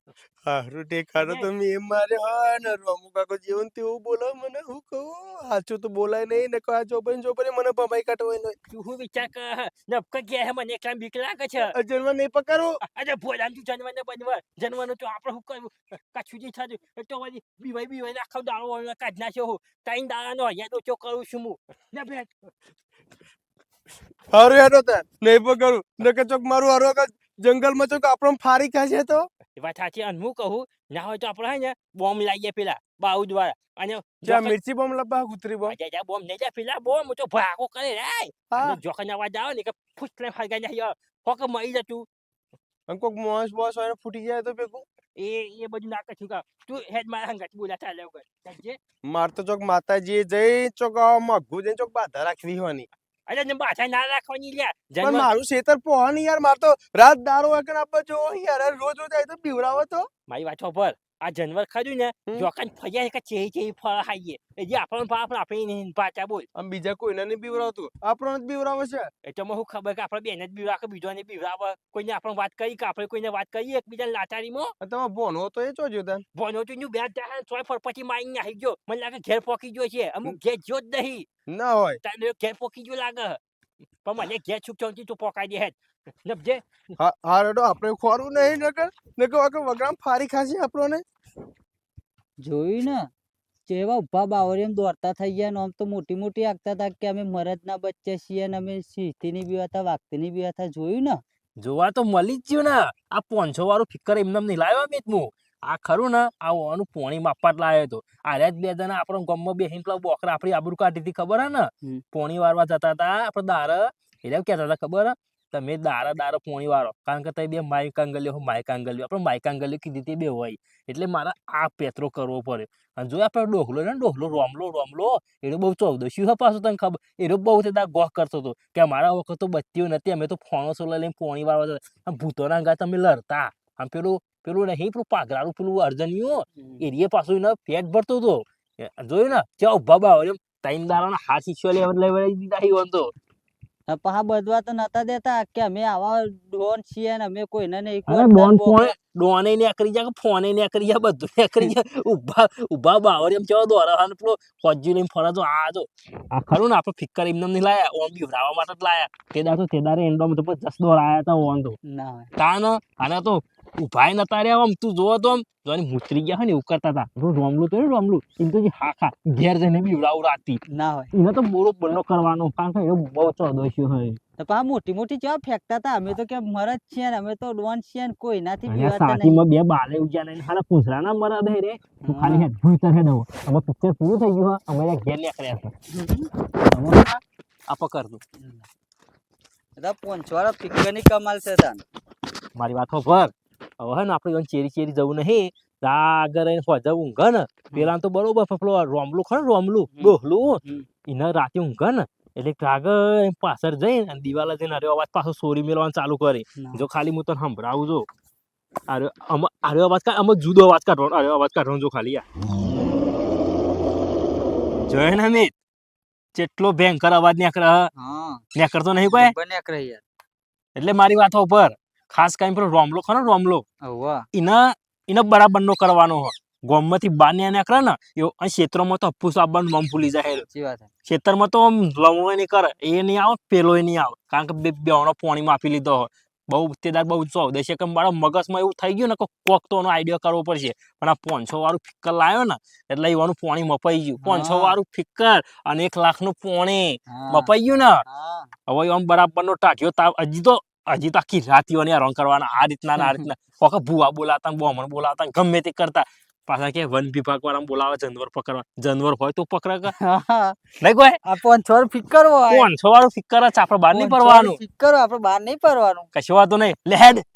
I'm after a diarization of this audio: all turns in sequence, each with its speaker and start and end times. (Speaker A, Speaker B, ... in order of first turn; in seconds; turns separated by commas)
Speaker A: 0.5-8.6, Speaker B: 1.2-1.5, Speaker B: 8.7-11.7, Speaker A: 11.7-12.8, Speaker B: 12.8-22.3, Speaker A: 24.3-29.3, Speaker B: 29.6-34.6, Speaker A: 34.2-35.7, Speaker B: 35.7-42.1, Speaker A: 38.5-38.8, Speaker A: 42.9-44.8, Speaker B: 45.1-48.8, Speaker A: 49.0-52.9, Speaker B: 53.3-55.3, Speaker A: 55.0-60.1, Speaker B: 60.3-66.5, Speaker A: 66.5-69.1, Speaker B: 69.2-74.7, Speaker A: 74.8-76.2, Speaker B: 76.3-81.3, Speaker A: 81.5-82.0, Speaker B: 82.0-83.4, Speaker B: 84.0-86.8, Speaker A: 87.0-91.0, Speaker C: 92.4-93.1, Speaker C: 93.7-101.2, Speaker B: 101.6-143.1, Speaker C: 143.9-148.9, Speaker B: 148.1-161.8, Speaker C: 161.8-162.3, Speaker B: 162.4-170.6, Speaker C: 170.7-171.1, Speaker B: 171.1-174.2, Speaker C: 174.4-179.4, Speaker B: 178.7-185.7, Speaker C: 182.0-182.5, Speaker C: 185.9-186.3, Speaker B: 186.6-188.2, Speaker C: 188.4-188.7, Speaker C: 189.8-191.8, Speaker B: 192.5-208.1, Speaker C: 199.9-200.9, Speaker C: 206.6-206.8, Speaker B: 208.9-212.2, Speaker B: 214.8-215.5, Speaker B: 216.3-217.9, Speaker C: 217.9-218.4, Speaker B: 218.5-219.3, Speaker C: 219.0-220.0, Speaker B: 220.8-223.6, Speaker C: 223.8-224.2, Speaker B: 224.3-230.4, Speaker C: 230.2-230.9, Speaker B: 231.1-248.0, Speaker C: 244.2-244.8, Speaker C: 247.1-247.5, Speaker C: 248.1-248.5, Speaker B: 248.7-259.9, Speaker C: 253.0-253.3, Speaker C: 259.9-260.6, Speaker B: 260.8-261.2, Speaker C: 261.2-262.7, Speaker B: 262.5-264.6, Speaker C: 263.9-266.1, Speaker B: 266.1-267.2